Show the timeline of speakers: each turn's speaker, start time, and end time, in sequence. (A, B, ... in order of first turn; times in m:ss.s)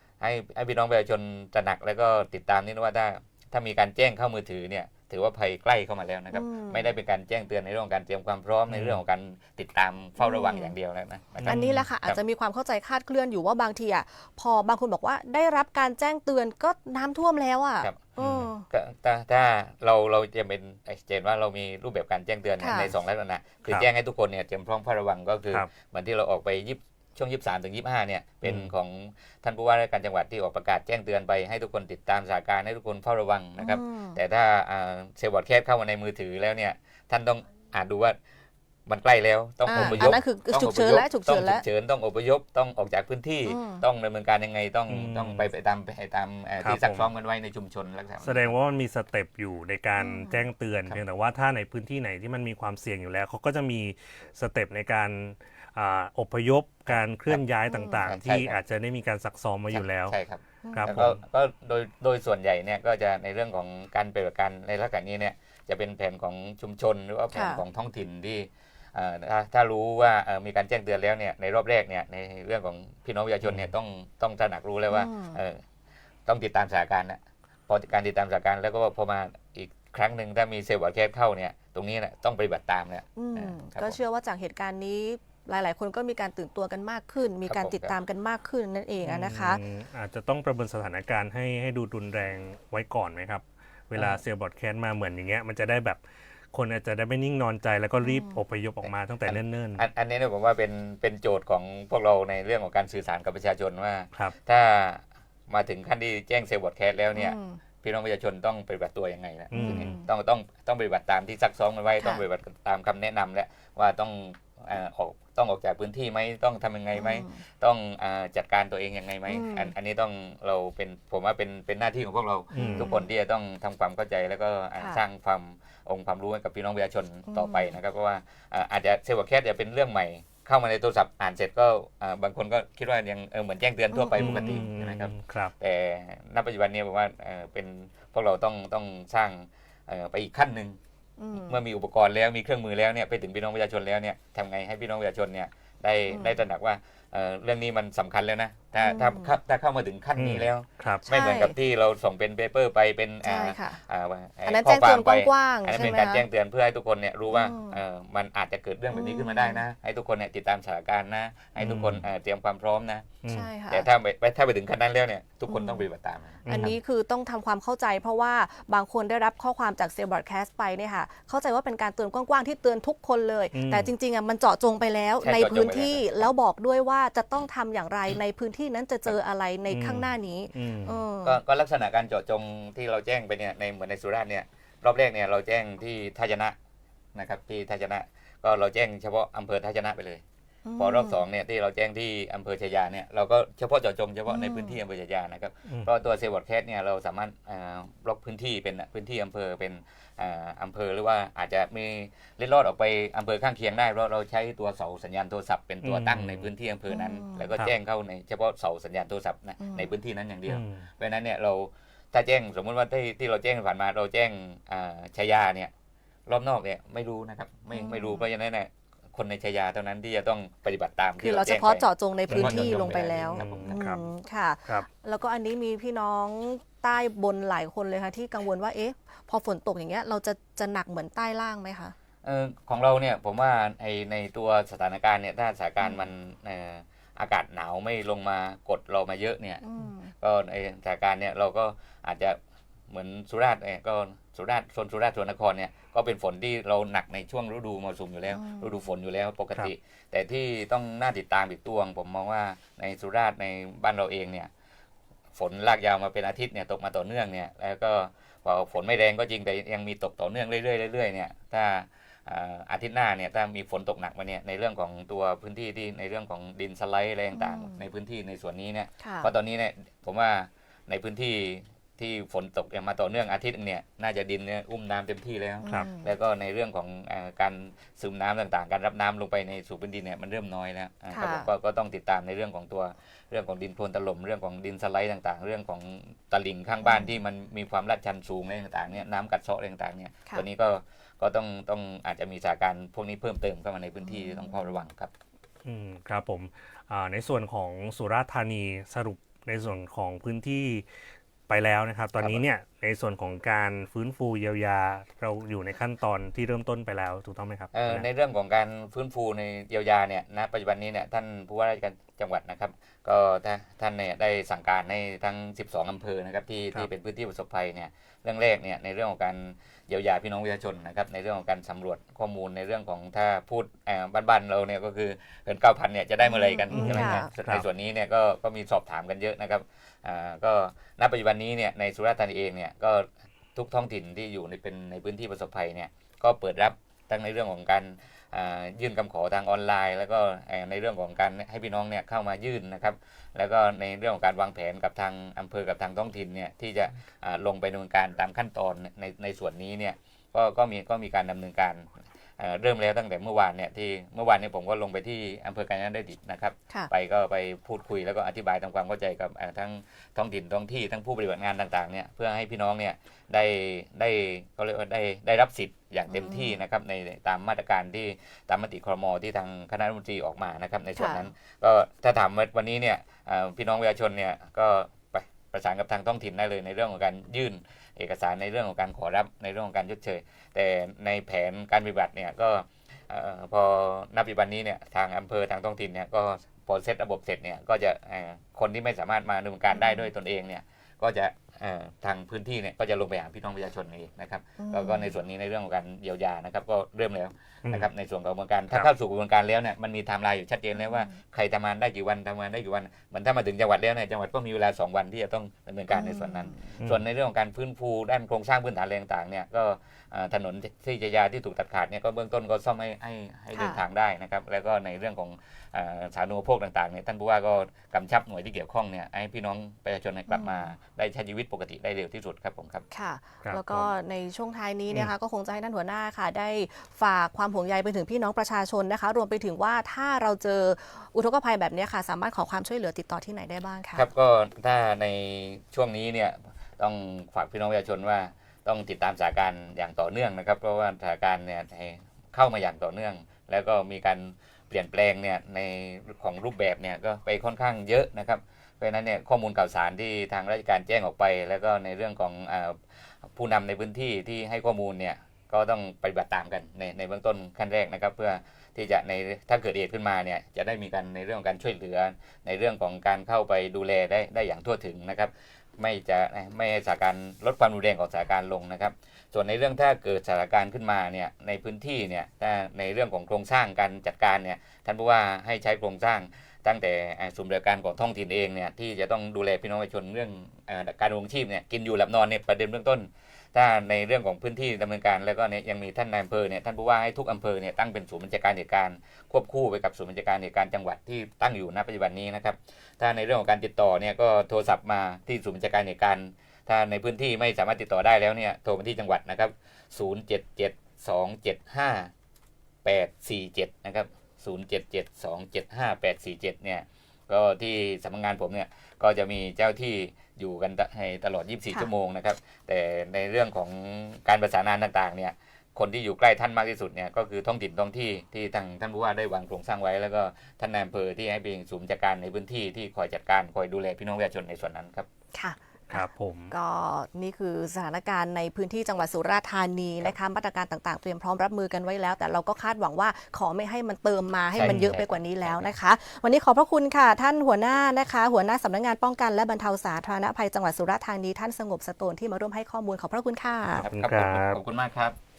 0:00.2-0:12.2 A
0:06.3-0:06.9 B
0:08.7-0:09.0 C
0:10.2-0:10.7 B
0:11.4-0:11.9 C
0:11.4-0:18.7 B
0:17.8-0:18.1 A
0:18.2-0:18.5 C
0:18.7-0:38.2 A
0:22.6-0:22.9 B
0:28.4-0:28.7 C
0:33.6-0:34.2 B
0:38.9-0:48.5 A
0:39.6-0:41.6 B
0:39.8-0:40.2 C
0:43.4-0:43.8 B
0:44.9-0:45.5 C
0:46.6-0:47.1 C
0:48.2-1:00.1 C
0:50.0-0:50.4 B
0:56.9-0:57.4 A
0:57.7-0:58.0 B
0:58.0-0:58.6 A
0:59.7-1:15.6 A
1:00.6-1:01.0 B
1:00.7-1:01.2 C
1:07.3-1:07.6 B
1:13.4-1:13.7 C
1:14.9-1:15.4 B
1:16.2-1:24.0 A
1:23.2-1:29.6 B
1:27.4-1:28.0 A
1:29.0-1:36.0 C
1:36.5-1:39.8 C
1:38.0-1:38.4 B
1:38.8-2:20.8 A
1:47.1-1:47.6 B
1:49.5-1:49.9 C
1:49.5-1:50.1 B
1:56.9-1:57.4 B
1:59.3-1:59.7 B
2:02.5-2:02.9 C
2:02.5-2:03.1 B
2:04.8-2:05.0 B
2:07.3-2:07.7 B
2:13.9-2:14.7 B
2:14.1-2:15.5 C
2:21.2-2:21.6 B
2:21.3-2:43.1 A
2:26.1-2:26.4 B
2:28.8-2:29.3 B
2:30.2-2:31.0 C
2:31.0-2:31.6 B
2:33.2-2:33.8 B
2:34.4-2:36.2 B
2:37.3-2:37.8 B
2:38.9-2:39.6 B
2:41.6-2:42.0 C
2:43.2-2:43.5 C
2:43.3-2:43.9 B
2:43.7-2:46.8 A
2:45.5-2:45.9 B
2:46.4-2:46.8 C
2:46.5-3:01.4 B
2:53.5-2:53.9 C
2:55.2-2:56.3 A
2:59.7-3:01.0 C
3:01.2-3:06.5 A
3:07.1-3:10.2 A
3:10.6-3:11.2 B
3:10.8-3:35.7 A
3:14.3-3:14.8 B
3:25.8-3:26.5 C
3:26.9-3:27.5 B
3:29.6-3:29.9 B
3:30.5-3:30.9 C
3:36.3-3:43.8 A
3:37.7-3:38.2 B
3:41.2-3:51.9 B
3:42.3-3:44.0 C
3:52.2-3:59.6 A
3:55.8-3:56.1 B
3:59.6-4:00.1 B
4:00.2-4:02.4 A
4:02.9-4:14.5 A
4:08.3-4:08.9 B
4:15.3-4:55.1 A
4:27.3-4:27.8 B
4:29.0-4:29.3 B
4:35.6-4:36.1 B
4:41.1-4:41.5 B
4:46.8-4:47.1 B
4:54.0-4:54.8 B
4:55.6-5:00.8 C
5:01.5-5:08.0 C
5:07.7-7:02.8 A
5:26.2-5:27.3 B
5:26.7-5:27.6 C
6:06.1-6:06.6 B
6:11.0-6:11.3 B
6:29.7-6:30.1 B
6:34.6-6:35.1 B
6:40.8-6:41.1 B
6:45.9-6:46.6 B
6:53.5-6:53.8 B
7:00.3-7:00.7 B
7:02.9-7:14.0 B
7:03.4-7:03.9 C
7:13.9-7:32.8 A
7:33.3-8:22.1 A
8:22.8-8:45.1 A
8:45.3-9:03.9 B
8:45.9-8:46.5 C
8:54.5-8:55.7 A
8:54.6-8:54.9 C
9:03.7-9:05.2 A
9:03.9-9:04.6 C